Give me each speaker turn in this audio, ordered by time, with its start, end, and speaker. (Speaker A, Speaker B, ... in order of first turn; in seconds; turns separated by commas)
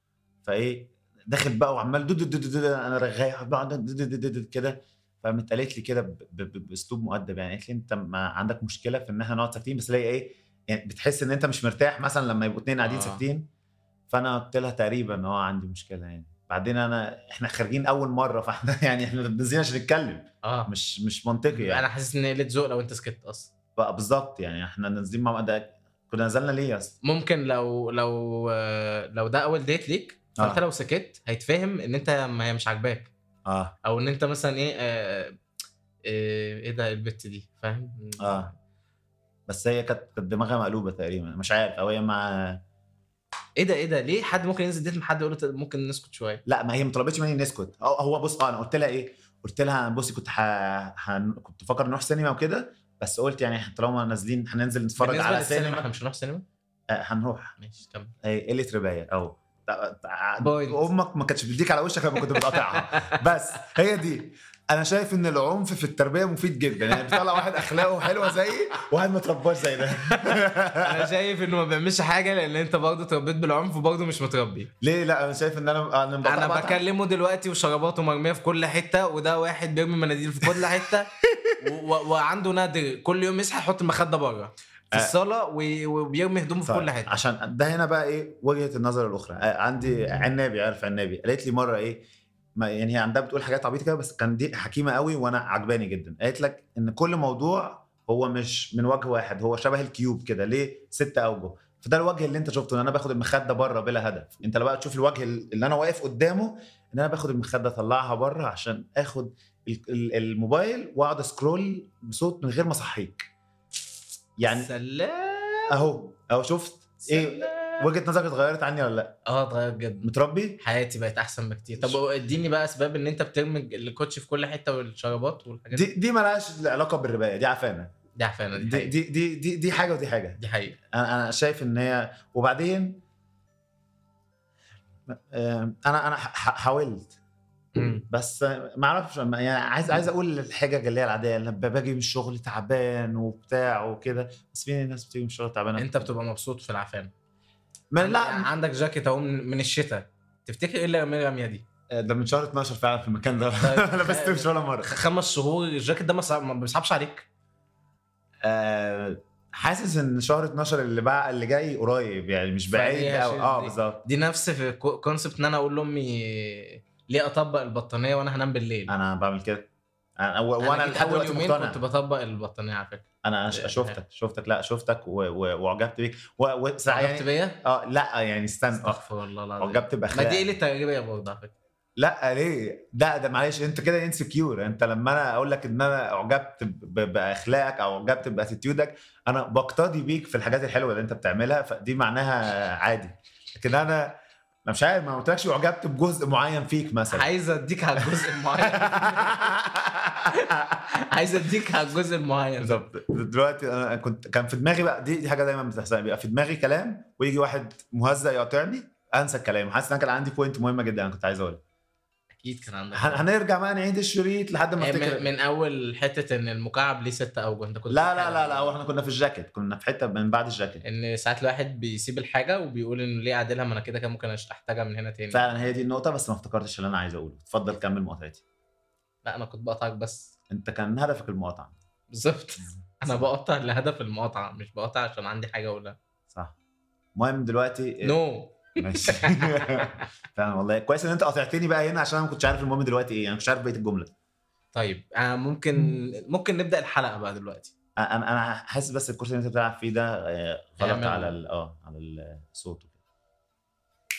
Speaker A: 0.4-13.4, Speaker B: 12.8-13.2, Speaker A: 14.1-21.9, Speaker B: 20.4-20.7, Speaker B: 21.5-23.5, Speaker A: 23.8-26.9, Speaker B: 27.0-33.1, Speaker A: 33.5-33.7, Speaker B: 33.8-35.3, Speaker B: 36.0-38.5, Speaker A: 38.2-38.5, Speaker A: 39.5-42.6, Speaker B: 43.5-46.4, Speaker A: 46.5-55.9, Speaker B: 55.0-56.4, Speaker A: 56.9-57.5, Speaker B: 57.6-58.1, Speaker A: 58.2-71.1, Speaker B: 60.4-60.9, Speaker B: 62.2-63.2, Speaker B: 66.9-68.3, Speaker B: 70.0-74.7, Speaker A: 74.8-76.8, Speaker B: 76.2-87.2, Speaker A: 81.3-81.6, Speaker A: 86.7-113.3, Speaker A: 114.4-114.7, Speaker B: 114.4-116.0, Speaker A: 115.7-119.2, Speaker B: 117.0-117.9, Speaker B: 119.2-125.9, Speaker A: 120.0-120.6, Speaker A: 121.8-122.0, Speaker A: 125.7-127.9, Speaker B: 128.2-128.9, Speaker A: 128.5-130.4, Speaker B: 130.4-130.8, Speaker A: 130.9-133.0, Speaker A: 135.1-137.2, Speaker B: 137.7-138.0, Speaker A: 137.8-146.1, Speaker B: 145.8-147.1, Speaker A: 147.9-148.5, Speaker B: 148.0-151.6, Speaker A: 151.9-154.9, Speaker B: 153.6-157.3, Speaker A: 158.4-164.0, Speaker B: 162.7-168.9, Speaker A: 168.9-169.7, Speaker A: 170.2-171.8, Speaker B: 170.6-174.0, Speaker A: 173.2-179.1, Speaker B: 176.9-177.6, Speaker B: 178.7-181.5, Speaker A: 179.6-180.5, Speaker A: 182.0-197.3, Speaker B: 197.1-199.5, Speaker A: 198.0-200.9, Speaker B: 200.3-202.8, Speaker A: 202.6-211.6, Speaker B: 212.3-213.2, Speaker A: 212.9-215.3, Speaker B: 214.8-218.7, Speaker A: 217.9-220.8, Speaker B: 220.8-225.5, Speaker A: 225.3-228.4, Speaker B: 229.2-230.3, Speaker A: 230.5-231.8, Speaker B: 232.1-236.0, Speaker A: 236.3-236.6, Speaker A: 237.2-238.2, Speaker B: 238.0-240.1, Speaker A: 238.8-244.1, Speaker B: 244.7-247.7, Speaker A: 248.0-252.9, Speaker B: 250.8-251.3